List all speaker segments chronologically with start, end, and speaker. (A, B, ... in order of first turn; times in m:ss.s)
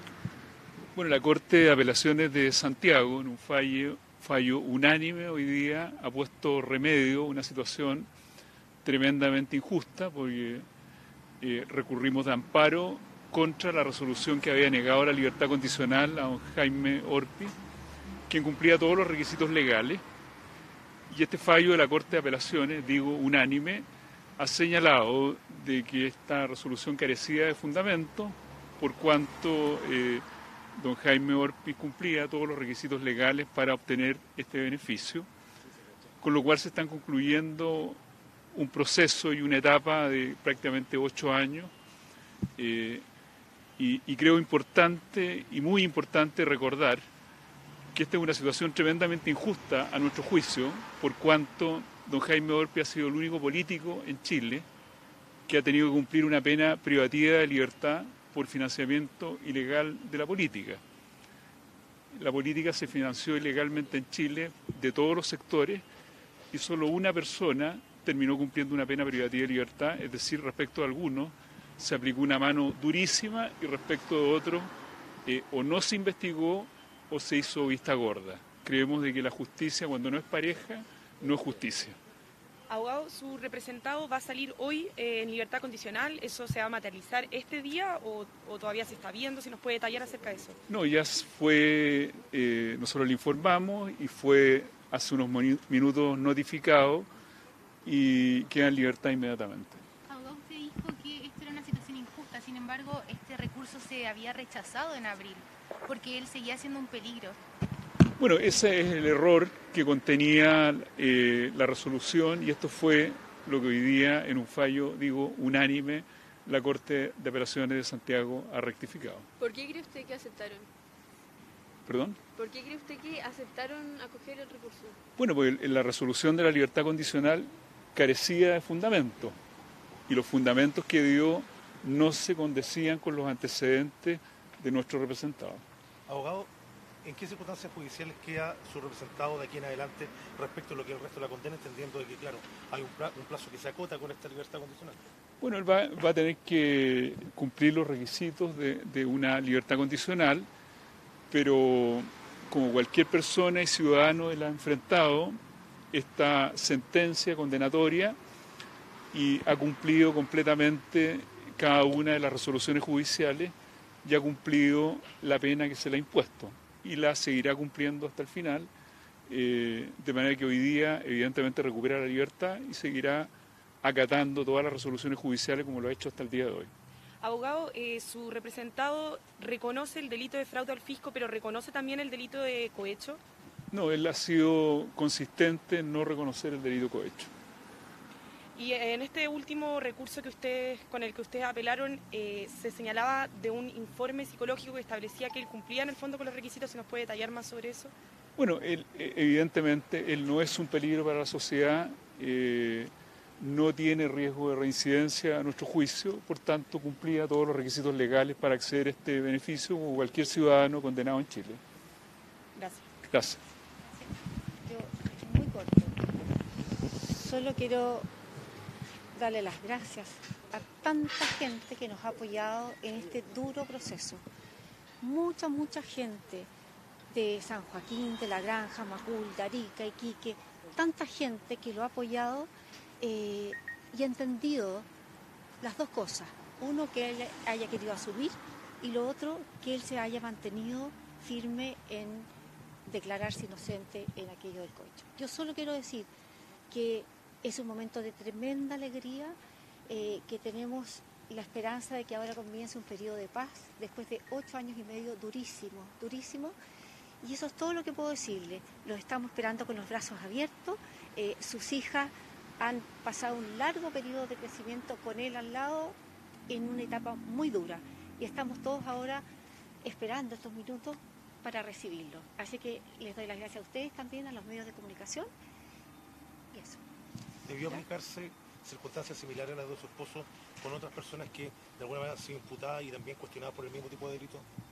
0:00.9-0:08.1 A
0:08.8-0:10.6 A
0:11.4-0:17.5 A
0:18.3-0:20.0 A
0:21.1-0:23.8 A
0:24.4-0:35.3 A
0:36.2-0:38.0 A
0:38.5-0:41.7 A
0:42.6-0:43.0 A
0:43.8-0:47.1 A
0:47.9-0:54.6 A
0:55.5-1:00.8 A
1:02.1-1:05.8 A
1:06.5-1:14.7 A
1:15.2-1:22.0 A
1:22.7-1:30.6 B
1:30.7-1:37.1 A
1:37.8-1:39.8 A
1:40.0-1:47.4 C
1:48.2-1:59.3 A
1:59.4-2:00.7 D
2:01.8-2:02.2 A
2:02.4-2:05.0 D
2:05.2-2:09.4 A
2:10.1-2:15.6 A
2:16.1-2:16.5 E
2:17.0-2:25.0 E
2:25.4-2:30.5 A
2:31.3-2:35.4 A
2:35.9-2:38.2 A
2:39.1-2:48.7 A
2:49.3-2:56.7 A
2:57.2-3:03.2 B
3:03.7-3:07.3 A
3:08.6-3:17.9 B
3:18.4-3:31.6 A
3:32.6-3:32.9 B
3:33.0-3:33.4 A
3:34.6-3:36.4 F
3:37.0-3:38.1 F
3:39.1-3:44.2 F
3:45.0-3:46.5 F
3:47.1-3:54.9 F
3:55.6-4:02.3 F
4:02.8-4:06.1 F
4:06.7-4:09.4 F
4:09.9-4:16.6 F
4:17.2-4:26.0 F
4:26.5-4:29.2 F
4:29.8-4:35.3 F
4:36.5-4:36.8 F
4:37.4-4:44.4 E